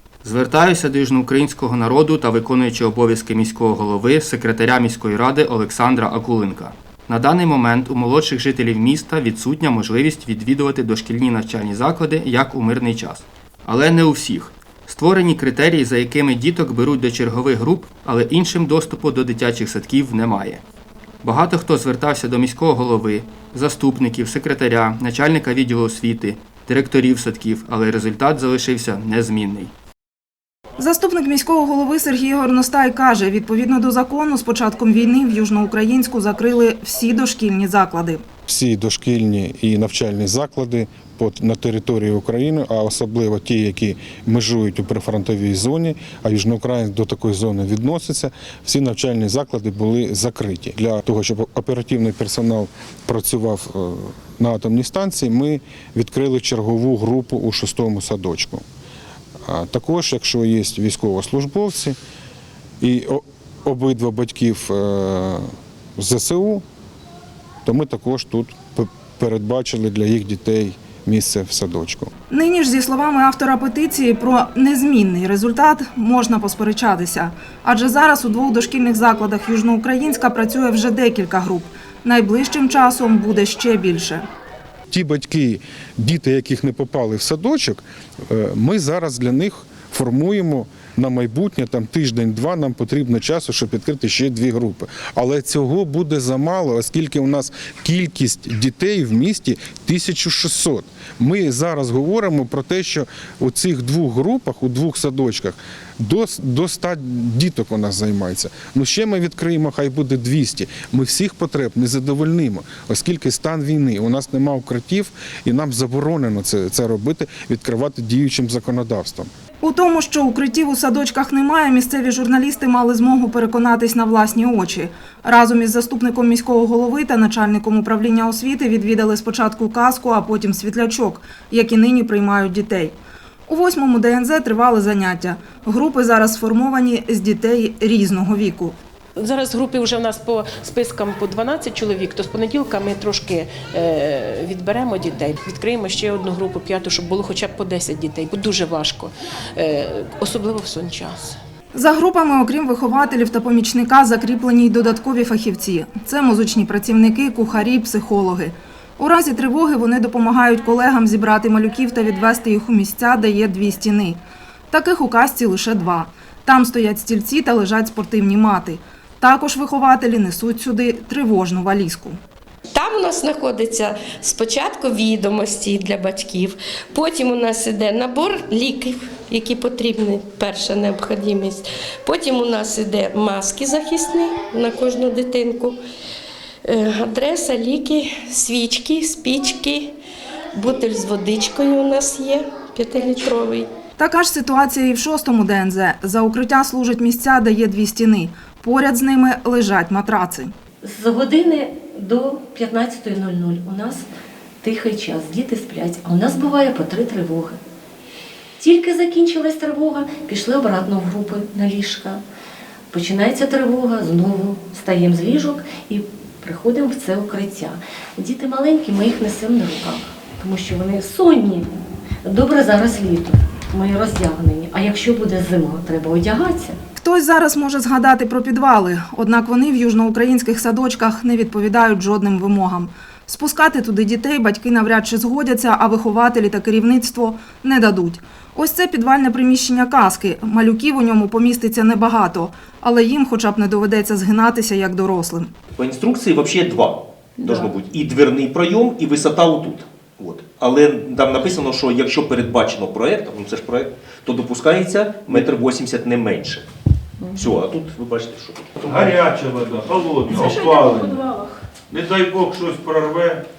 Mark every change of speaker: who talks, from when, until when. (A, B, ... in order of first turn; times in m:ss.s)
0:00.2-0:20.6 A
0:21.2-0:29.7 A
0:30.8-0:38.2 B
0:38.5-0:58.6 C
0:59.4-1:02.0 C
1:02.8-1:06.6 C
1:07.6-1:12.1 C
1:12.3-1:24.2 B
1:24.9-1:59.3 C
1:59.6-2:13.0 B
2:13.5-2:18.8 B
2:19.2-2:31.4 D
2:31.7-2:52.2 B
2:52.7-3:05.8 E
3:06.6-3:09.9 E
3:10.5-3:13.7 E
3:14.0-3:20.5 B
3:20.8-3:24.1 F
3:24.6-3:27.6 F
3:28.6-3:32.2 F
3:32.9-3:41.7 F
3:42.2-3:46.8 F
3:47.0-4:05.5 B
4:05.8-4:16.6 G
4:17.3-4:19.2 G
4:18.8-4:21.2 H
4:20.3-4:21.6 D
4:21.9-4:23.4 H